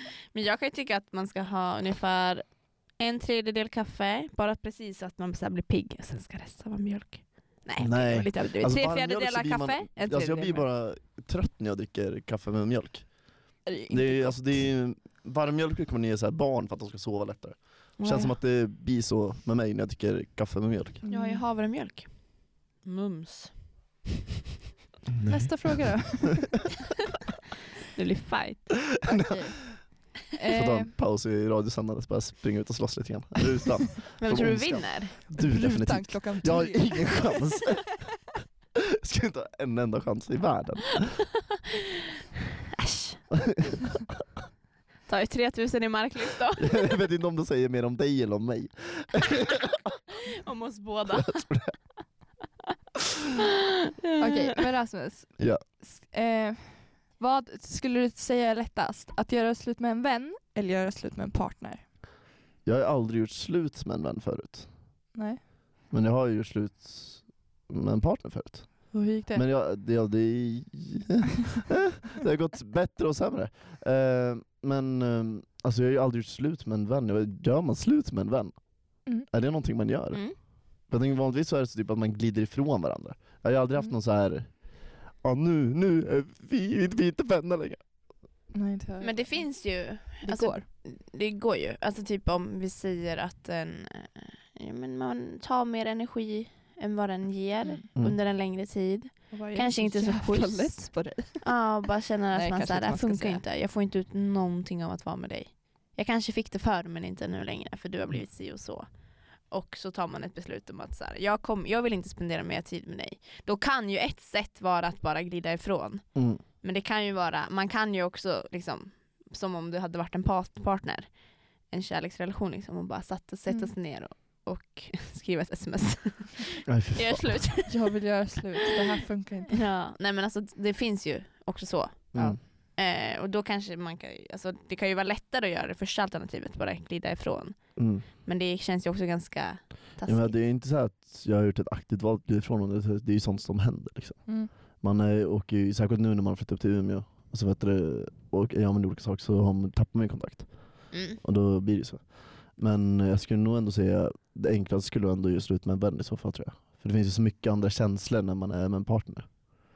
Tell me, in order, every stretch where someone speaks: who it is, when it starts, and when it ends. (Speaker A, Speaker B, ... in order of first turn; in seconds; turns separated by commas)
Speaker A: 0.3-10.6, Speaker B: 7.8-13.2, Speaker C: 13.6-14.6, Speaker B: 13.9-21.0, Speaker A: 18.0-18.3, Speaker C: 21.0-21.4, Speaker A: 21.1-24.0, Speaker B: 25.1-25.6, Speaker C: 25.2-26.6, Speaker A: 27.9-29.0, Speaker C: 29.0-30.9, Speaker B: 29.1-29.8, Speaker B: 30.5-38.2, Speaker A: 34.2-35.2, Speaker C: 35.3-37.6, Speaker B: 38.8-41.2, Speaker A: 42.7-43.2, Speaker B: 43.4-43.8, Speaker A: 45.1-46.8, Speaker B: 46.6-49.9, Speaker A: 50.2-51.6, Speaker B: 51.1-51.7, Speaker A: 54.0-54.4, Speaker C: 54.2-61.9, Speaker B: 62.6-64.7, Speaker C: 65.1-65.4, Speaker B: 65.9-87.8, Speaker C: 68.9-69.4, Speaker C: 88.5-90.6, Speaker A: 89.0-127.8, Speaker C: 99.3-101.5, Speaker C: 102.3-103.4, Speaker B: 116.1-116.4, Speaker B: 126.7-127.4, Speaker C: 127.7-129.6, Speaker A: 129.5-140.4, Speaker B: 132.1-132.4, Speaker B: 137.8-138.0, Speaker B: 140.1-159.5, Speaker C: 144.3-144.5, Speaker A: 150.9-151.2